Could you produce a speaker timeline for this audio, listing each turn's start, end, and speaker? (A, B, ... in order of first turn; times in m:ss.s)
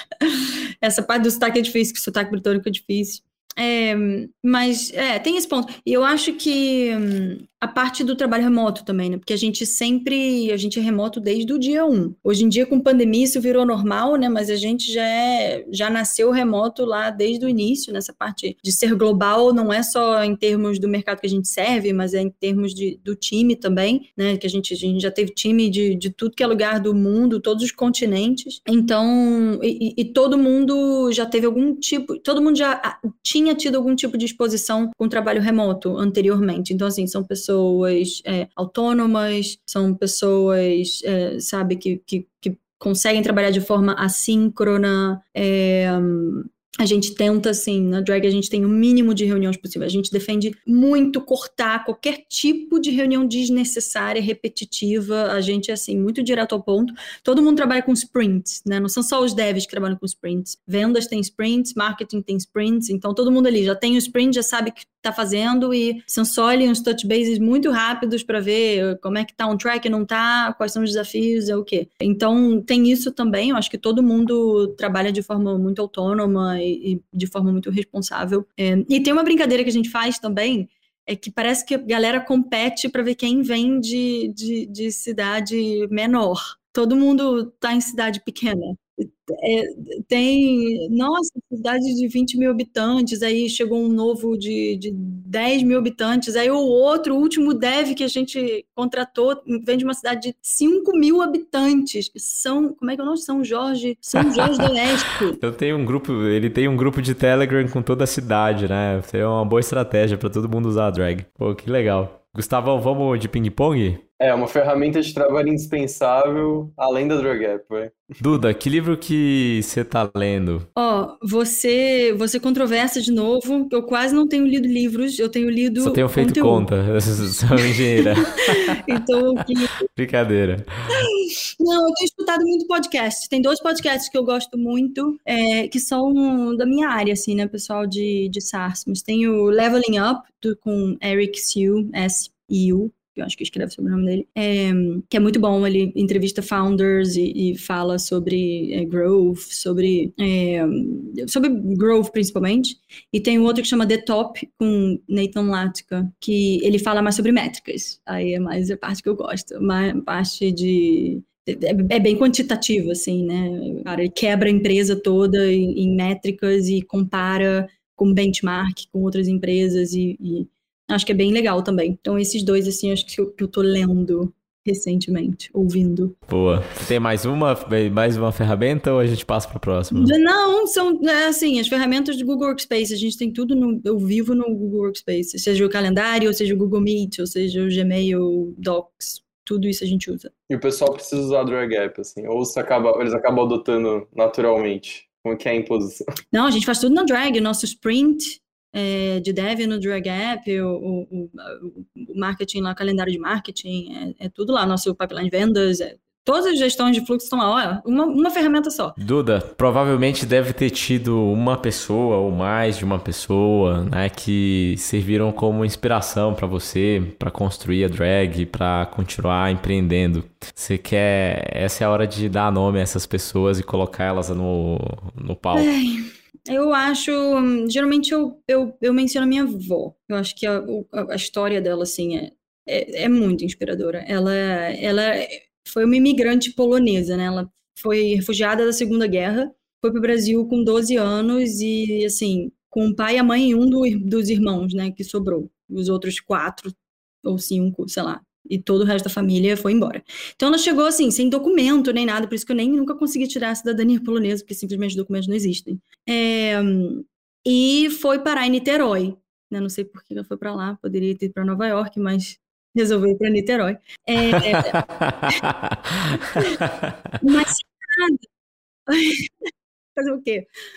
0:00.2-1:45.4 A
1:44.4-1:44.7 B
1:45.4-1:54.0 B
1:54.2-1:58.0 C
1:58.2-2:00.7 B
2:00.8-2:06.7 A
2:05.8-2:08.8 B
2:07.6-2:09.8 A
2:09.9-2:10.7 B
2:11.0-2:56.2 A
2:56.3-3:00.2 B
2:59.9-3:10.3 A
3:10.5-3:16.0 C
3:16.3-3:29.0 A
3:29.0-3:45.7 B
3:45.5-4:06.7 A
4:07.2-4:24.8 A
4:24.4-4:26.9 B
4:27.2-4:28.2 A
4:28.9-4:29.3 A
4:30.0-4:30.5 A